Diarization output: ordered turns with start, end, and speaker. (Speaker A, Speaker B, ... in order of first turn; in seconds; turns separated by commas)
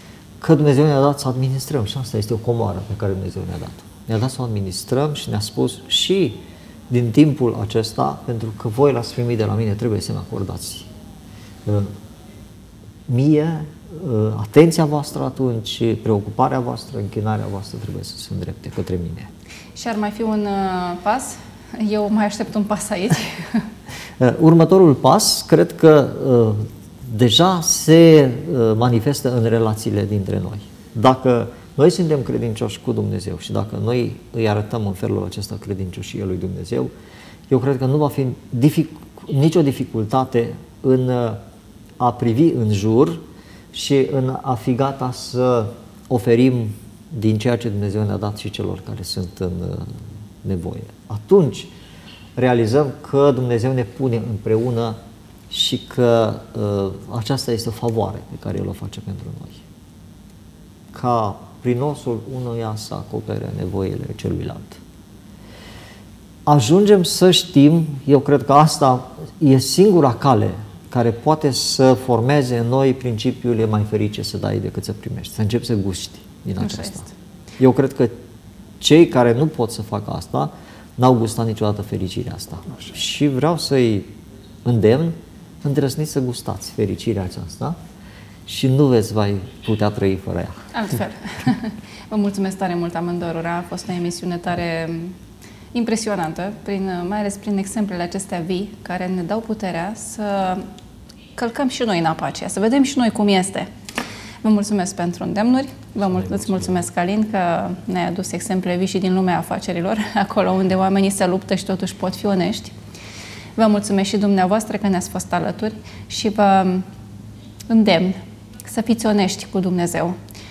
Speaker A: 0.4-10.9, Speaker A: 11.6-11.9, Speaker A: 13.1-19.3, Speaker B: 19.8-23.7, Speaker A: 24.2-36.9, Speaker A: 37.5-41.4, Speaker A: 42.0-43.2, Speaker A: 43.7-51.7, Speaker A: 52.4-59.6, Speaker A: 60.9-64.8, Speaker A: 66.5-77.0, Speaker B: 76.6-77.1, Speaker A: 77.6-78.2, Speaker A: 78.8-84.1, Speaker A: 84.6-87.8, Speaker A: 88.5-90.6, Speaker B: 90.7-95.2, Speaker B: 95.7-100.7, Speaker B: 101.3-103.7, Speaker B: 104.4-112.7, Speaker A: 106.1-106.7, Speaker B: 113.5-116.8, Speaker B: 117.7-120.2